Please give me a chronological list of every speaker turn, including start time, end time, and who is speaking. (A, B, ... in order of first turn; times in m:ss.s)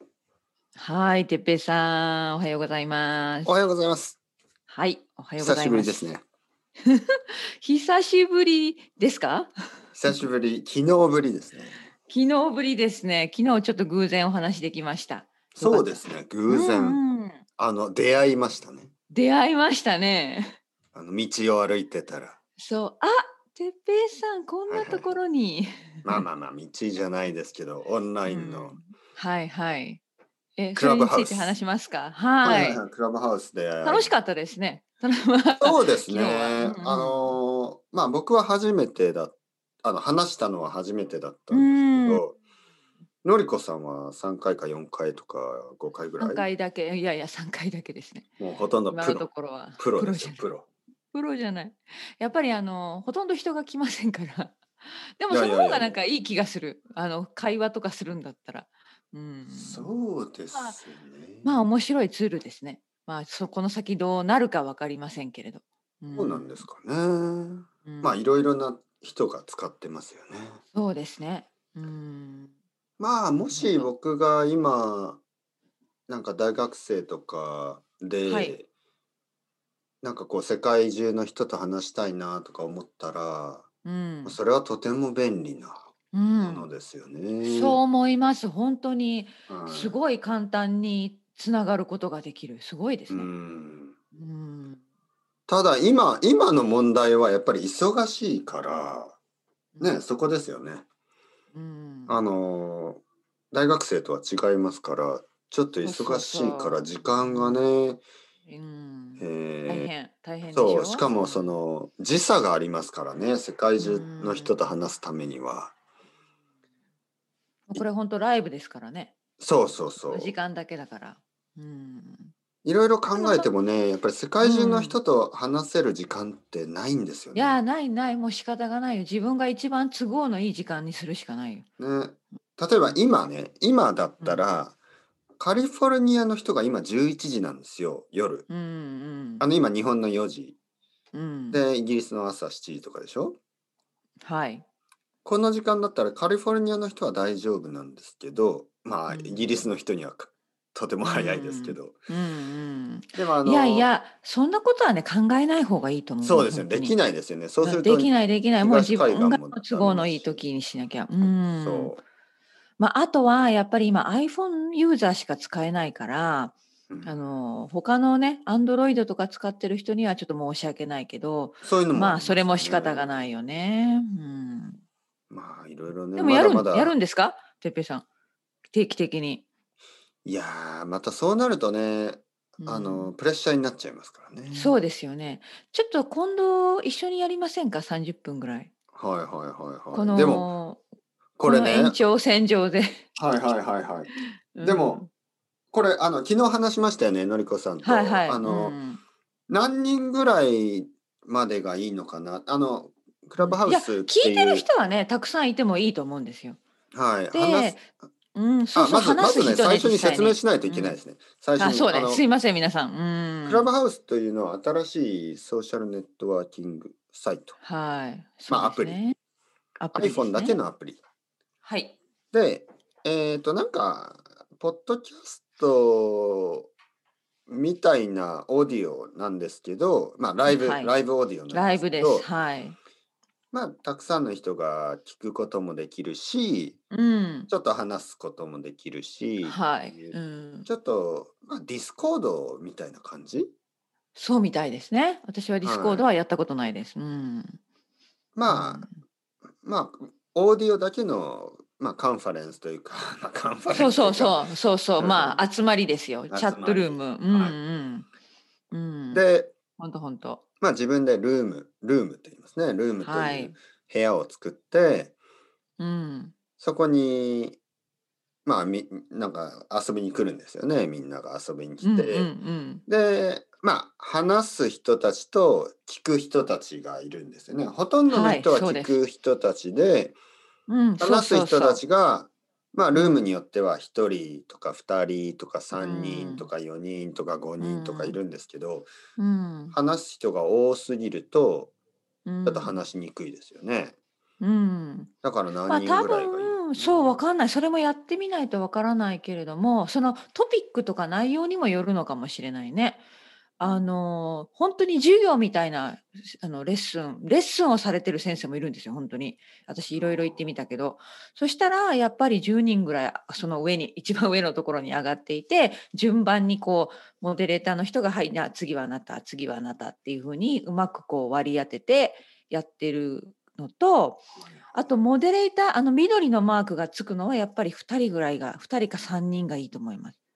0:00.8-0:03.5 A
0:03.4-0:04.2 B
0:04.7-0:06.1 A
0:05.4-0:06.2 B
0:06.9-0:09.5 A
0:10.0-0:11.8 B
0:12.1-0:17.4 A
0:15.6-0:17.0 B
0:17.6-0:18.9 B
0:19.1-0:20.6 A
0:20.9-0:22.4 B
0:22.6-0:26.3 A
0:24.7-0:25.2 B
0:26.0-0:28.8 B
0:28.3-0:30.0 A
0:30.6-0:32.8 A
0:30.8-0:31.6 B
0:32.4-0:34.1 B
0:33.8-0:37.4 A
0:35.6-0:42.4 B
0:41.5-0:42.2 A
0:43.2-0:46.4 B
0:46.2-0:48.3 A
0:48.4-0:50.7 B
0:48.9-0:50.5 A
0:51.1-0:54.6 A
0:55.2-0:59.9 A
0:55.3-0:56.0 B
0:59.5-1:01.6 B
1:00.5-1:00.8 A
1:01.4-1:06.6 A
1:06.1-1:10.6 B
1:07.8-1:08.2 A
1:10.7-1:12.5 A
1:13.0-1:15.2 B
1:13.5-1:13.9 A
1:16.1-1:18.7 B
1:18.3-1:18.6 A
1:20.0-1:23.7 B
1:23.8-1:24.4 A
1:24.2-1:25.8 B
1:26.1-1:26.7 A
1:26.4-1:27.8 B
1:27.4-1:33.3 A
1:29.5-1:29.9 B
1:33.1-1:34.0 B
1:34.2-1:34.8 A
1:35.5-1:39.2 B
1:39.8-1:40.0 A
1:39.8-1:40.8 B
1:41.5-1:42.2 A
1:42.1-1:48.0 B
1:45.8-1:47.7 A
1:48.5-1:51.6 A
1:49.2-1:49.9 B
1:50.5-1:55.8 B
1:53.8-1:54.6 A
1:57.7-1:59.1 A
1:59.4-2:00.3 B
2:00.0-2:02.3 A
2:02.6-2:07.6 B
2:03.1-2:03.5 A
2:04.4-2:05.0 A
2:07.3-2:11.7 A
2:11.8-2:14.8 B
2:15.4-2:18.5 B
2:18.5-2:19.5 A
2:19.4-2:20.6 B
2:21.1-2:21.6 A
2:21.5-2:23.4 B
2:24.2-2:24.6 A
2:25.2-2:32.0 B
2:29.1-2:29.6 A
2:31.0-2:37.0 A
2:33.2-2:33.9 B
2:36.2-2:40.4 B
2:37.6-2:41.9 A
2:41.2-2:42.0 B
2:42.8-2:54.8 A
2:46.9-2:47.2 B
2:51.6-2:53.2 B
2:55.3-2:57.0 B
2:56.1-2:58.0 A
2:58.7-2:59.4 A
3:00.2-3:04.8 B
3:02.6-3:03.1 A
3:04.5-3:08.7 A
3:08.9-3:10.5 B
3:09.9-3:10.8 A
3:11.4-3:12.0 B
3:11.5-3:13.0 A
3:13.2-3:14.1 B
3:14.1-3:15.1 A
3:14.6-3:15.0 B
3:15.7-3:18.8 B
3:17.8-3:19.0 A
3:19.5-3:24.7 B
3:23.4-3:26.6 A
3:26.9-3:27.9 B
3:27.3-3:31.0 A
3:28.8-3:32.2 B
3:31.6-3:33.7 A
3:33.5-3:37.6 B
3:37.6-3:39.2 A
3:38.5-3:39.0 B
3:39.8-3:40.6 A
3:39.9-3:41.0 B
3:41.6-3:42.0 A
3:42.3-3:46.7 B
3:47.5-3:52.3 B
3:50.5-3:51.0 A
3:51.5-3:52.8 A
3:53.5-3:56.8 B
3:56.9-3:57.5 A
3:57.5-4:03.5 B
3:59.4-4:00.7 A
4:04.2-4:07.6 A
4:05.6-4:06.1 B
4:08.4-4:08.9 B
4:08.5-4:08.9 A
4:09.6-4:15.4 B
4:13.7-4:18.1 A
4:16.3-4:17.6 B
4:18.7-4:19.2 A
4:19.1-4:19.5 B
4:19.8-4:20.4 A
4:20.6-4:25.1 B
4:23.0-4:23.6 A
4:25.8-4:26.3 A
4:26.6-4:27.6 B
4:28.4-4:32.3 B
4:31.8-4:32.8 A
4:32.9-4:40.2 B
4:38.1-4:39.0 A
4:40.7-4:41.8 A
4:41.0-4:48.9 B
4:42.9-4:43.3 A
4:45.8-4:46.5 A
4:47.6-4:48.2 A
4:49.2-4:49.8 A
4:49.7-4:51.7 B
4:52.2-4:52.8 A
4:52.4-4:54.0 B
4:54.4-4:55.1 A
4:55.2-4:57.2 B
4:55.7-5:03.0 A
5:03.6-5:24.2 A
5:09.9-5:10.5 B
5:24.7-5:30.2 A